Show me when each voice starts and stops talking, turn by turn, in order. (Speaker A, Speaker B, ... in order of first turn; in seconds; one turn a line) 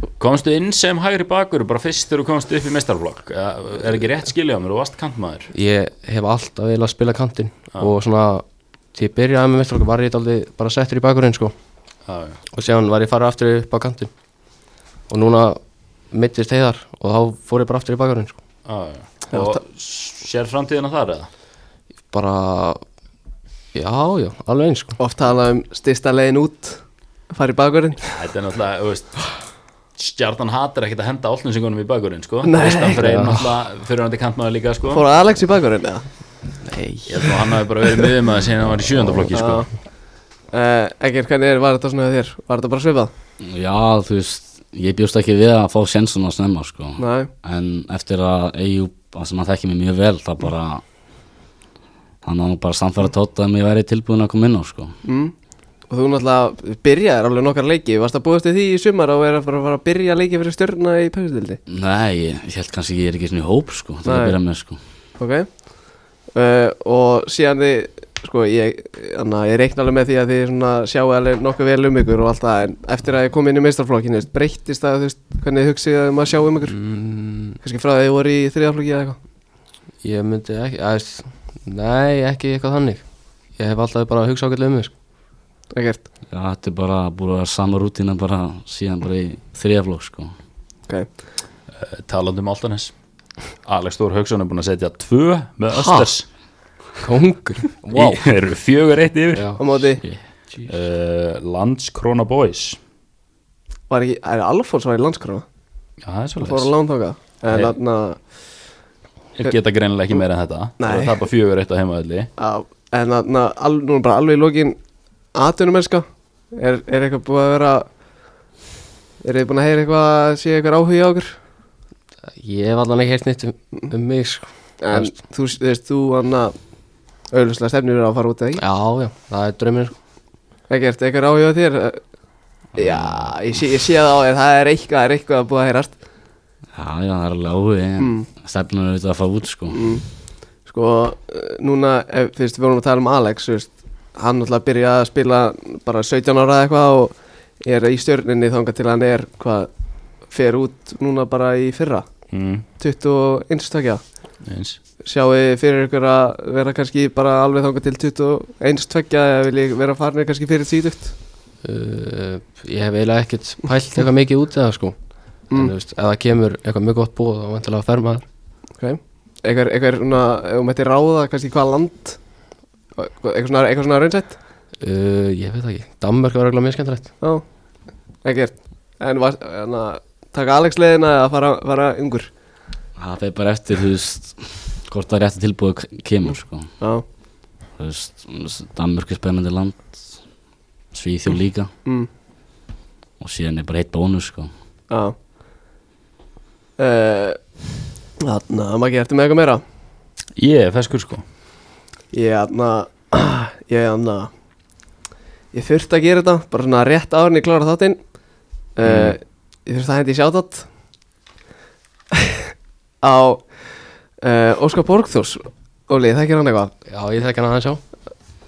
Speaker A: 0.2-5.5
Speaker B: 5.5-11.5
Speaker A: 12.1-12.4
Speaker B: 12.5-14.1
Speaker B: 15.1-15.6
Speaker B: 16.1-18.4
Speaker A: 18.6-21.3
Speaker C: 19.3-19.6
Speaker B: 22.1-22.8
Speaker B: 23.7-25.0
Speaker C: 25.0-28.0
Speaker A: 28.1-29.2
Speaker A: 30.0-35.0
Speaker C: 32.4-33.0
Speaker B: 32.9-33.5
Speaker C: 34.9-36.0
Speaker B: 36.6-37.3
Speaker A: 37.1-39.7
Speaker C: 39.3-39.7
Speaker C: 40.5-43.1
Speaker D: 43.4-50.8
Speaker C: 47.0-47.3
Speaker D: 52.2-55.0
Speaker C: 55.0-55.3
Speaker C: 55.9-61.6
Speaker D: 61.7-64.8
Speaker C: 64.0-64.3
Speaker C: 65.2-65.7
Speaker C: 66.3-76.8
Speaker B: 76.7-77.6
Speaker C: 77.6-79.2
Speaker B: 80.0-83.0
Speaker B: 83.6-84.9
Speaker C: 85.7-86.0
Speaker D: 86.3-90.3
Speaker A: 91.7-92.9
Speaker A: 93.6-96.2
Speaker B: 95.8-96.1
Speaker B: 97.0-98.3
Speaker A: 97.9-99.5
Speaker B: 99.3-99.6
Speaker C: 99.6-100.0
Speaker A: 100.7-102.8
Speaker C: 103.9-105.4
Speaker A: 106.0-106.7
Speaker C: 106.4-108.2
Speaker A: 109.4-112.3
Speaker C: 110.8-111.2
Speaker C: 112.4-114.8
Speaker C: 115.3-117.9
Speaker C: 119.2-121.4
Speaker B: 122.4-125.1
Speaker C: 124.8-126.5
Speaker C: 127.3-128.6
Speaker B: 128.6-129.9
Speaker C: 130.7-132.0
Speaker C: 132.7-136.0
Speaker D: 132.8-133.3
Speaker D: 136.7-139.9
Speaker C: 138.0-138.3
Speaker C: 139.7-140.1
Speaker C: 140.6-149.7
Speaker C: 150.3-152.1
Speaker A: 152.3-152.7
Speaker C: 152.8-154.0
Speaker A: 154.4-154.8
Speaker C: 155.0-161.1
Speaker B: 161.6-164.9
Speaker B: 165.5-168.2
Speaker C: 168.8-172.2
Speaker C: 172.9-174.4
Speaker B: 174.8-177.1
Speaker C: 178.2-182.3
Speaker D: 183.0-186.7
Speaker D: 187.8-190.2
Speaker D: 190.9-191.7
Speaker D: 193.2-194.5
Speaker C: 194.9-195.1
Speaker C: 196.8-197.4
Speaker C: 198.2-199.6
Speaker A: 200.3-201.2
Speaker C: 202.1-204.3
Speaker C: 205.5-208.0
Speaker C: 208.8-210.7
Speaker C: 212.1-212.4
Speaker C: 213.0-213.6
Speaker C: 214.2-216.7
Speaker B: 216.9-217.8